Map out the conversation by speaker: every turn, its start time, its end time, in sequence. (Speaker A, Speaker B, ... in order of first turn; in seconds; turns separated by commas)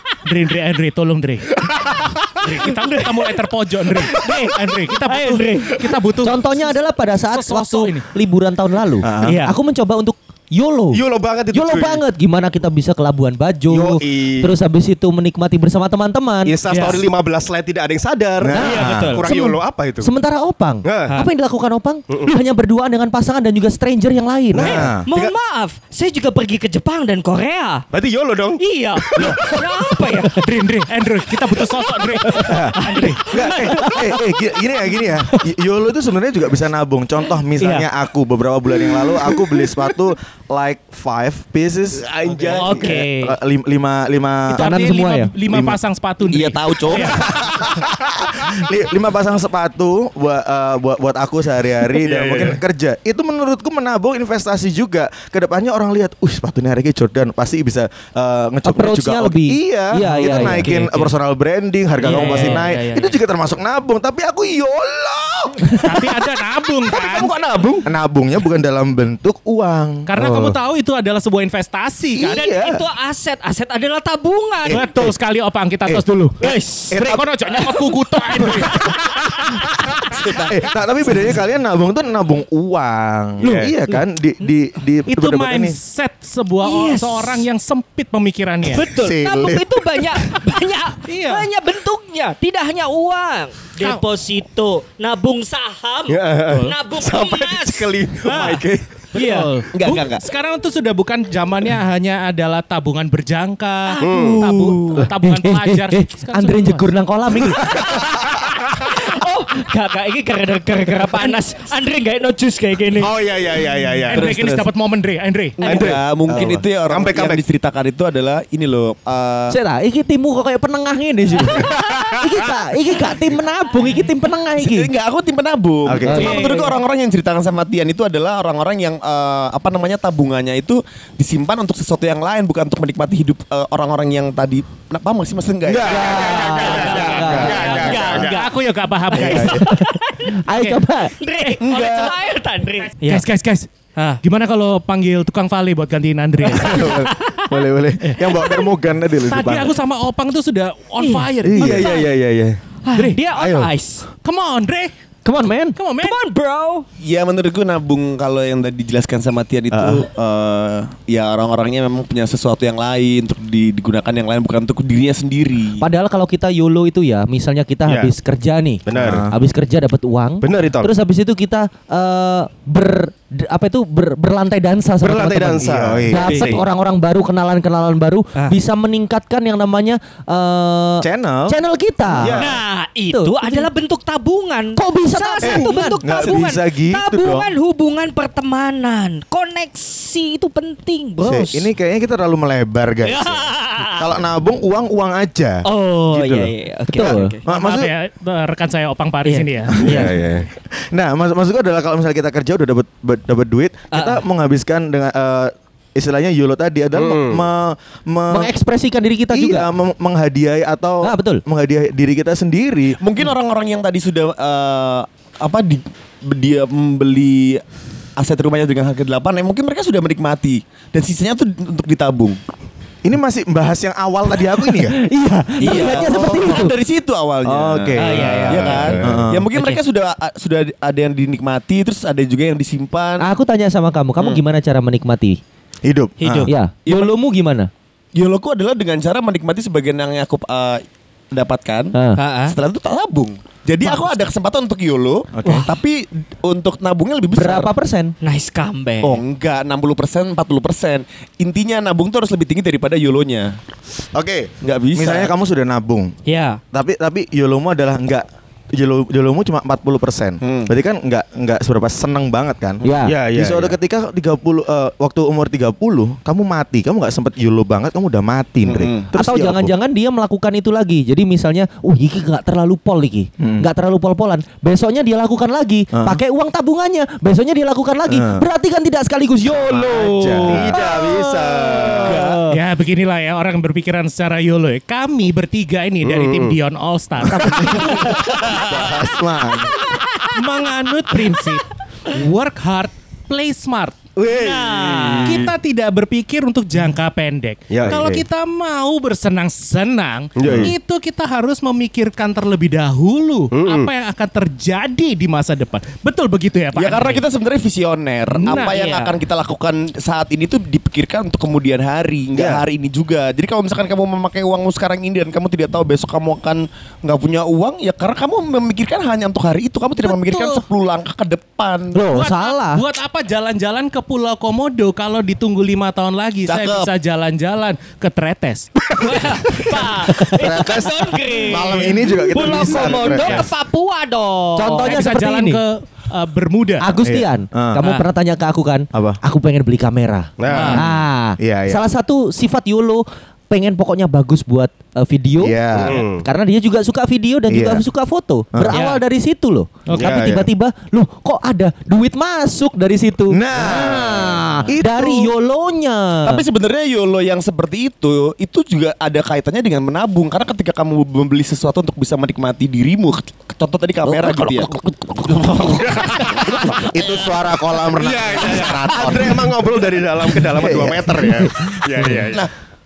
Speaker A: 0.2-1.6, Speaker A: 2.4-6.7, Speaker B: 2.5-3.3, Speaker B: 3.9-5.8, Speaker C: 6.2-17.0, Speaker A: 7.3-8.1, Speaker D: 9.0-9.4, Speaker B: 9.2-9.6, Speaker E: 10.9-12.0, Speaker E: 13.7-14.5, Speaker E: 16.4-20.1, Speaker A: 16.7-17.0, Speaker B: 16.7-17.0, Speaker D: 18.4-19.0, Speaker C: 18.5-24.9, Speaker B: 18.6-19.2, Speaker E: 20.8-21.1, Speaker E: 22.1-22.3, Speaker E: 24.5-25.3, Speaker D: 24.6-25.1, Speaker B: 24.6-27.8, Speaker E: 27.9-29.6, Speaker B: 28.6-30.4, Speaker A: 30.4-33.2, Speaker B: 31.9-34.2, Speaker D: 32.4-44.7, Speaker B: 37.6-37.9, Speaker E: 41.9-42.9, Speaker B: 42.5-43.3, Speaker A: 44.5-47.2, Speaker C: 44.5-45.3, Speaker D: 45.5-45.8, Speaker F: 46.3-47.3, Speaker D: 47.3-65.9, Speaker E: 52.0-52.6, Speaker C: 58.6-60.8, Speaker A: 60.1-61.1, Speaker B: 62.0-62.7, Speaker A: 62.0-63.1, Speaker A: 65.8-67.3, Speaker E: 67.2-67.8, Speaker D: 67.8-70.5, Speaker A: 70.1-72.5, Speaker D: 72.1-72.8, Speaker B: 72.3-74.8, Speaker D: 74.7-75.1, Speaker A: 74.7-78.9, Speaker B: 76.4-77.0, Speaker D: 76.9-77.2, Speaker D: 78.4-78.7, Speaker B: 80.1-80.5, Speaker D: 80.4-85.8, Speaker E: 83.4-83.7, Speaker A: 85.1-88.8, Speaker B: 86.6-87.4, Speaker B: 88.7-98.6, Speaker D: 89.0-89.6, Speaker A: 91.1-91.5, Speaker E: 96.1-98.9, Speaker B: 99.1-99.5, Speaker A: 99.1-106.9, Speaker F: 99.7-100.2, Speaker B: 103.9-105.0, Speaker E: 104.0-104.4, Speaker C: 105.2-108.0, Speaker B: 108.2-113.1, Speaker E: 113.0-114.3, Speaker A: 114.1-115.6, Speaker F: 114.1-114.7, Speaker E: 115.6-117.4, Speaker F: 115.6-119.6, Speaker D: 116.3-116.6, Speaker C: 119.5-124.9, Speaker E: 121.7-122.5, Speaker F: 124.5-136.2, Speaker D: 125.8-126.4, Speaker C: 126.0-126.7, Speaker B: 126.1-126.7, Speaker D: 135.6-137.8, Speaker E: 135.8-138.5, Speaker C: 135.8-138.2, Speaker B: 136.3-138.4, Speaker A: 138.1-139.7, Speaker B: 139.1-140.4, Speaker D: 139.1-139.7, Speaker C: 139.3-139.9, Speaker C: 140.4-141.1, Speaker A: 140.5-140.8, Speaker B: 141.1-143.2, Speaker F: 141.6-142.2, Speaker A: 143.0-143.7, Speaker A: 144.2-146.9, Speaker B: 146.4-147.5, Speaker D: 146.7-149.7, Speaker B: 148.3-148.6, Speaker A: 149.3-151.9, Speaker B: 151.0-152.1, Speaker D: 151.4-152.4, Speaker E: 151.6-152.5, Speaker B: 152.8-154.1, Speaker A: 154.2-154.9, Speaker C: 155.2-155.8, Speaker A: 155.8-156.2, Speaker B: 156.0-156.8, Speaker F: 157.0-165.9, Speaker D: 159.7-160.0, Speaker C: 165.8-182.4, Speaker E: 167.8-168.1, Speaker E: 168.8-169.3, Speaker D: 168.9-169.4, Speaker E: 170.4-170.9, Speaker D: 175.0-176.6, Speaker E: 175.7-176.6, Speaker D: 181.0-181.6, Speaker D: 182.1-182.6, Speaker B: 182.3-191.7, Speaker C: 183.1-183.7, Speaker C: 184.8-186.0, Speaker D: 185.4-187.5, Speaker D: 191.2-197.9, Speaker B: 193.0-194.1, Speaker B: 195.6-197.4, Speaker C: 196.9-197.3, Speaker A: 197.5-199.8, Speaker B: 199.2-200.1, Speaker E: 199.8-200.5, Speaker D: 200.8-208.5, Speaker B: 203.9-204.2, Speaker E: 206.9-207.4, Speaker C: 208.3-209.7, Speaker D: 209.3-213.0, Speaker C: 211.0-211.4, Speaker F: 213.0-217.6, Speaker F: 218.2-222.4, Speaker D: 223.0-225.0, Speaker C: 224.7-226.8, Speaker F: 225.6-233.3, Speaker D: 225.7-226.0, Speaker D: 227.4-229.5, Speaker B: 228.0-228.7, Speaker E: 228.3-229.2, Speaker B: 229.5-229.8, Speaker C: 233.2-235.4, Speaker D: 235.8-236.5, Speaker B: 236.2-236.5, Speaker C: 236.5-237.7, Speaker F: 236.9-237.1, Speaker F: 238.1-241.9, Speaker B: 242.2-242.5, Speaker F: 242.4-247.7, Speaker D: 245.3-245.7, Speaker B: 245.4-245.7, Speaker C: 247.3-248.1, Speaker B: 248.2-249.2, Speaker F: 249.0-253.5, Speaker D: 254.1-256.1, Speaker F: 254.6-255.3, Speaker B: 256.3-256.6, Speaker D: 256.7-269.7, Speaker F: 260.4-260.7, Speaker C: 262.8-263.2, Speaker E: 263.0-263.7, Speaker F: 268.7-269.1, Speaker C: 269.2-282.6, Speaker D: 273.4-273.7, Speaker D: 275.9-276.2, Speaker D: 278.1-278.4, Speaker D: 279.9-282.2, Speaker E: 280.5-282.0, Speaker F: 282.0-282.4, Speaker A: 282.5-288.1, Speaker E: 286.0-286.5, Speaker D: 287.2-289.8, Speaker B: 288.2-288.9, Speaker B: 289.8-290.4, Speaker A: 290.3-293.9, Speaker E: 294.1-295.5, Speaker B: 294.3-295.5, Speaker A: 295.3-307.2, Speaker E: 297.7-298.1, Speaker D: 297.9-298.2, Speaker E: 300.4-300.7, Speaker D: 300.4-300.7, Speaker E: 303.5-303.9, Speaker F: 306.7-322.1, Speaker A: 308.3-308.8, Speaker B: 308.6-309.2, Speaker E: 312.3-312.6, Speaker A: 320.0-320.6, Speaker C: 321.9-322.8, Speaker A: 322.1-328.7, Speaker F: 326.4-326.9, Speaker B: 328.9-335.0, Speaker D: 330.3-333.5, Speaker C: 332.4-333.1, Speaker C: 334.6-335.6, Speaker A: 334.8-336.9, Speaker C: 336.8-356.4, Speaker D: 337.0-337.8, Speaker D: 338.9-339.2, Speaker E: 340.4-340.8, Speaker B: 340.5-340.8, Speaker A: 340.5-340.8, Speaker D: 341.4-341.8, Speaker D: 345.4-346.0, Speaker E: 345.8-346.2, Speaker D: 347.5-347.8, Speaker B: 348.7-349.0, Speaker E: 349.9-350.5, Speaker D: 353.3-355.3, Speaker F: 356.2-366.8, Speaker C: 364.1-365.3, Speaker E: 365.9-366.6, Speaker D: 366.5-369.6, Speaker E: 368.0-372.5, Speaker D: 370.3-372.1, Speaker C: 372.0-372.3